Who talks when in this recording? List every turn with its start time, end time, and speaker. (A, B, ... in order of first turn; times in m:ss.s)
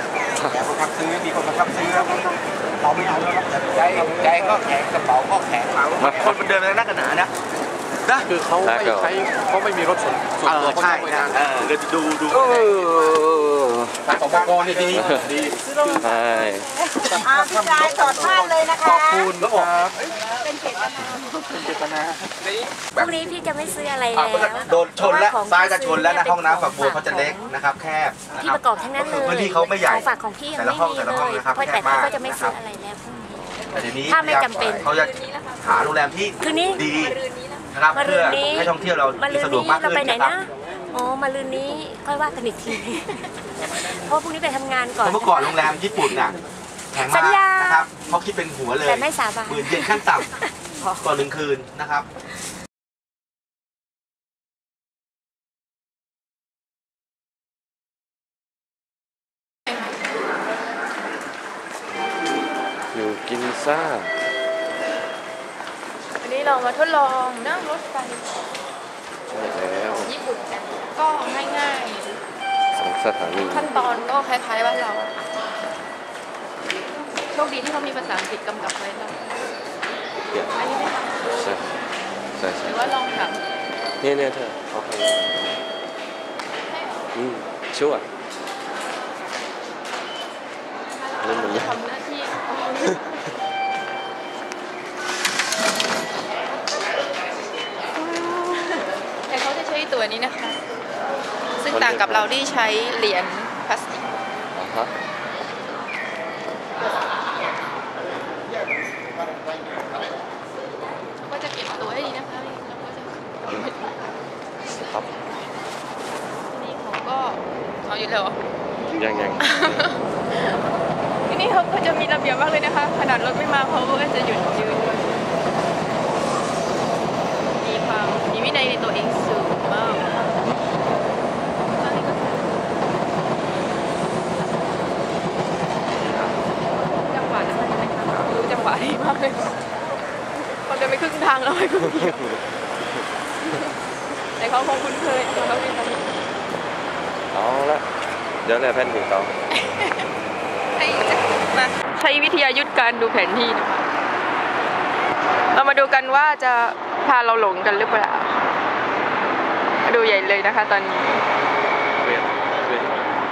0:00.4-0:07.3 A
0:06.0-0:06.3 B
0:08.0-0:08.4 A
0:08.3-0:11.4 C
0:08.6-0:09.2 B
0:10.4-0:12.9 A
0:12.9-0:13.3 C
0:14.0-0:15.1 A
0:14.1-0:16.0 C
0:15.0-0:15.3 B
0:16.0-0:16.7 B
0:17.1-0:20.0 A
0:17.2-0:18.0 C
0:18.6-0:19.5 C
0:21.5-0:22.2 C
0:22.9-0:27.5 D
0:24.1-0:32.6 A
0:28.4-0:34.9 D
0:33.7-0:37.2 A
0:36.4-0:36.8 D
0:37.7-0:40.4 A
0:37.9-0:45.7 D
0:45.0-0:46.4 A
0:46.9-0:50.3 A
0:47.0-0:47.9 D
0:48.8-0:51.0 D
0:51.0-0:52.1 A
1:02.9-1:04.1 B
1:06.2-1:08.4 E
1:09.3-1:10.1 B
1:09.8-1:12.1 E
1:12.7-1:13.7 B
1:13.5-1:15.2 E
1:17.3-1:19.4 E
1:20.5-1:21.3 E
1:21.4-1:21.6 B
1:22.4-1:22.7 B
1:22.6-1:23.4 E
1:24.0-1:25.2 B
1:26.8-1:27.0 E
1:27.1-1:28.0 B
1:31.2-1:33.2 E
1:31.2-1:31.8 B
1:37.9-1:40.6 E
1:41.6-1:44.1 E
1:41.7-1:42.3 B
1:44.5-1:44.9 B
1:51.2-1:53.9 E
1:56.5-1:58.4 E
1:58.9-1:59.8 B
1:59.4-2:00.6 E
2:01.3-2:05.2 E
2:07.6-2:10.6 E
2:11.7-2:12.7 E
2:16.0-2:16.3 B
2:17.0-2:19.6 E
2:20.4-2:22.4 E
2:23.4-2:23.7 E
2:24.4-2:26.1 E
2:27.3-2:27.8 B
2:28.4-2:29.3 B
2:29.5-2:30.1 E
2:30.7-2:33.9 E
2:35.5-2:38.4 E
2:39.8-2:41.2 E
2:42.0-2:43.1 B